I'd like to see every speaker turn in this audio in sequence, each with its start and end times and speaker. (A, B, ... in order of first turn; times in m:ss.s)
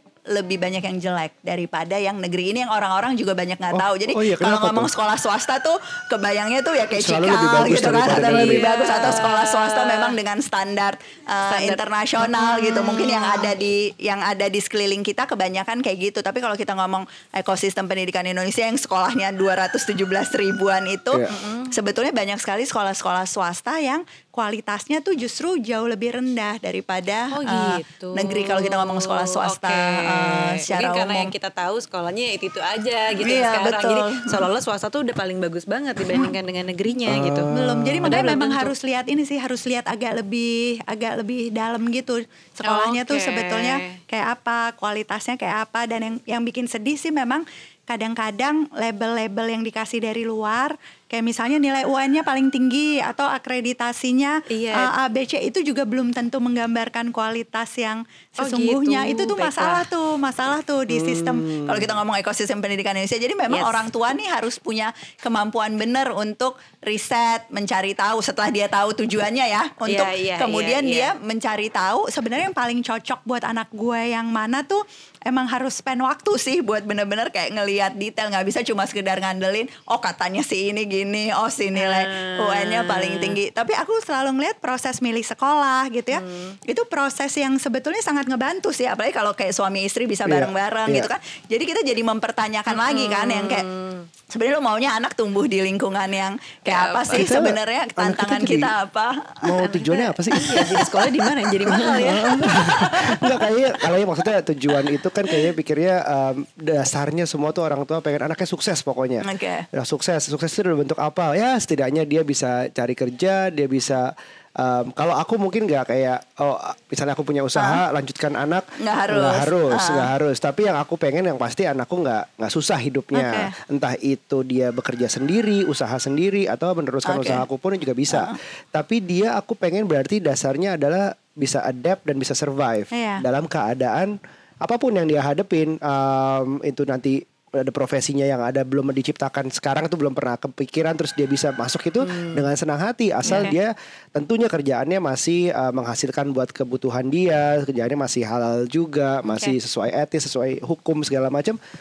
0:00.3-0:31.3 A
0:03.7-0:04.9 B
0:07.0-0:08.6 B
0:08.1-0:10.2 C
0:11.5-0:13.6 C
0:21.3-0:21.7 C
0:27.3-0:37.5 C
0:33.2-0:34.5 A
0:37.1-0:38.1 B
0:37.5-1:33.7 A
0:38.0-0:38.7 C
0:42.7-0:44.0 C
0:54.5-0:54.9 C
0:58.4-0:59.9 C
1:00.9-1:01.9 B
1:03.5-1:03.8 C
1:09.9-1:11.1 C
1:21.8-1:23.4 C
1:26.1-1:26.6 C
1:30.2-1:31.1 B
1:32.7-1:34.1 C
1:34.3-1:39.6 A
1:36.7-1:37.2 C
1:37.1-1:38.7 B
1:39.4-1:40.7 B
1:39.6-1:43.5 C
1:40.3-1:41.8 A
1:41.6-2:31.6 B
1:49.2-1:49.7 A
1:58.8-2:00.1 A
2:03.1-2:03.5 A
2:07.0-2:07.4 A
2:08.1-2:08.4 A
2:12.9-2:13.2 A
2:22.1-2:22.4 C
2:23.3-2:23.5 A
2:23.3-2:23.5 C
2:29.2-2:29.6 C